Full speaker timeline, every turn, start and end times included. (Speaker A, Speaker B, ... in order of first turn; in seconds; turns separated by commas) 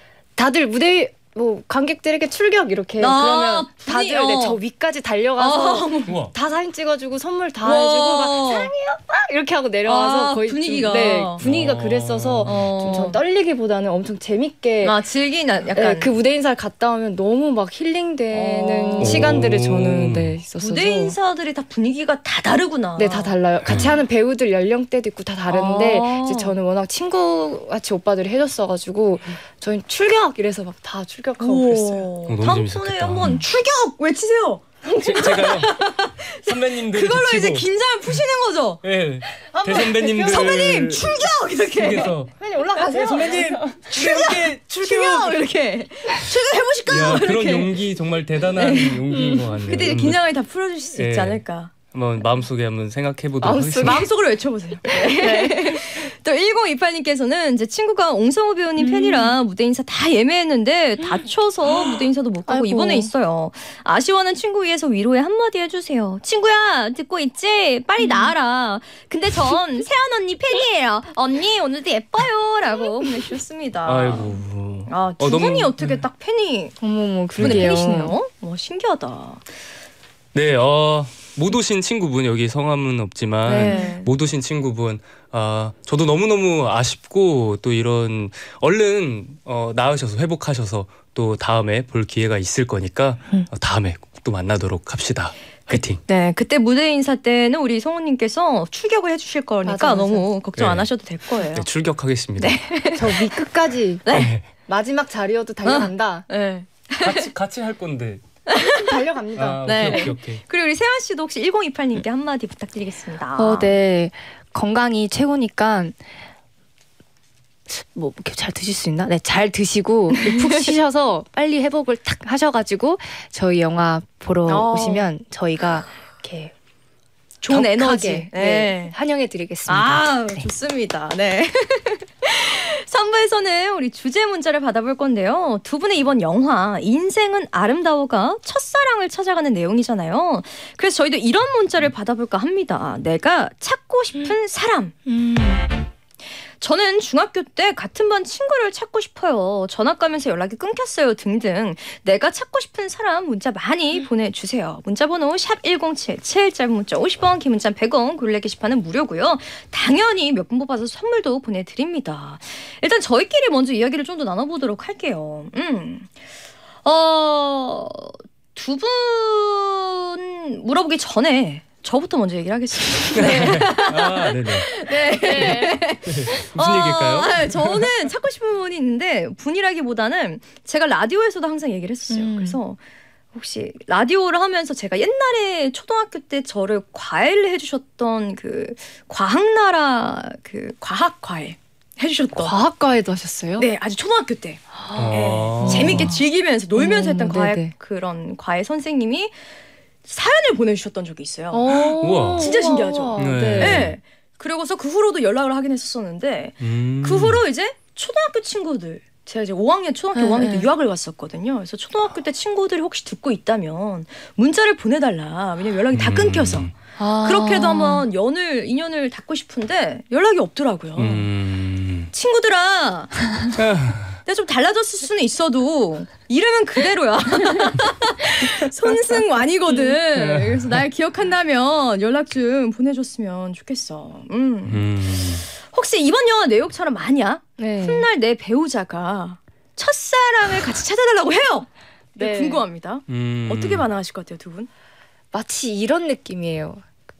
Speaker A: 0.3-15.0, Speaker B: 3.0-4.6, Speaker B: 5.4-6.2, Speaker C: 6.1-6.3, Speaker B: 7.6-8.7, Speaker B: 9.9-11.4, Speaker C: 11.4-12.6, Speaker B: 12.4-13.2, Speaker B: 14.8-16.1, Speaker A: 15.7-21.2, Speaker B: 18.3-19.3, Speaker C: 19.0-20.4, Speaker B: 20.6-23.3, Speaker A: 23.0-32.1, Speaker B: 25.5-26.5, Speaker B: 31.4-38.8, Speaker C: 32.3-33.4, Speaker C: 35.0-35.8, Speaker C: 36.4-37.7, Speaker C: 38.8-45.4, Speaker A: 39.4-40.6, Speaker B: 40.2-42.1, Speaker A: 42.1-43.8, Speaker B: 43.9-47.8, Speaker C: 46.9-50.2, Speaker B: 48.6-51.7, Speaker A: 49.1-49.4, Speaker C: 50.9-54.1, Speaker A: 53.4-54.1, Speaker B: 53.8-76.8, Speaker A: 54.8-56.1, Speaker A: 58.8-59.4, Speaker A: 61.0-63.1, Speaker A: 68.0-68.3, Speaker C: 73.8-76.0, Speaker A: 76.8-78.2, Speaker C: 77.4-77.7, Speaker B: 77.4-79.4, Speaker C: 80.3-96.0, Speaker A: 83.5-83.9, Speaker B: 83.5-84.1, Speaker B: 96.0-101.7, Speaker A: 99.6-100.3, Speaker C: 100.6-102.6, Speaker B: 102.4-103.3, Speaker A: 102.9-106.2, Speaker B: 104.0-104.3, Speaker C: 104.1-104.4, Speaker B: 105.6-107.3, Speaker C: 107.0-108.2, Speaker B: 108.5-109.0, Speaker A: 108.6-110.1, Speaker C: 109.3-110.4, Speaker B: 109.6-113.7, Speaker A: 113.3-116.0, Speaker A: 117.7-126.5, Speaker B: 124.5-125.1, Speaker B: 127.4-128.9, Speaker A: 127.5-130.4, Speaker B: 129.7-144.9, Speaker A: 145.1-145.7, Speaker B: 146.6-166.1, Speaker B: 166.8-182.8, Speaker C: 173.2-177.9, Speaker A: 175.1-175.8, Speaker A: 182.1-182.6, Speaker B: 183.3-192.6, Speaker A: 192.3-193.7, Speaker B: 193.6-199.3, Speaker A: 194.8-196.2, Speaker C: 194.9-196.1, Speaker A: 196.8-197.7, Speaker B: 200.0-216.7, Speaker A: 201.5-203.9, Speaker C: 202.0-202.5, Speaker C: 203.2-203.9, Speaker C: 206.6-207.4, Speaker A: 210.1-210.7, Speaker C: 215.9-216.7, Speaker A: 217.0-218.1, Speaker B: 217.2-221.3, Speaker C: 220.9-222.1, Speaker B: 222.1-223.3, Speaker C: 223.6-224.2, Speaker B: 224.2-244.7, Speaker C: 230.2-230.7, Speaker C: 234.7-235.5, Speaker A: 237.6-238.1, Speaker A: 242.2-242.6, Speaker C: 243.1-243.9, Speaker A: 245.3-246.8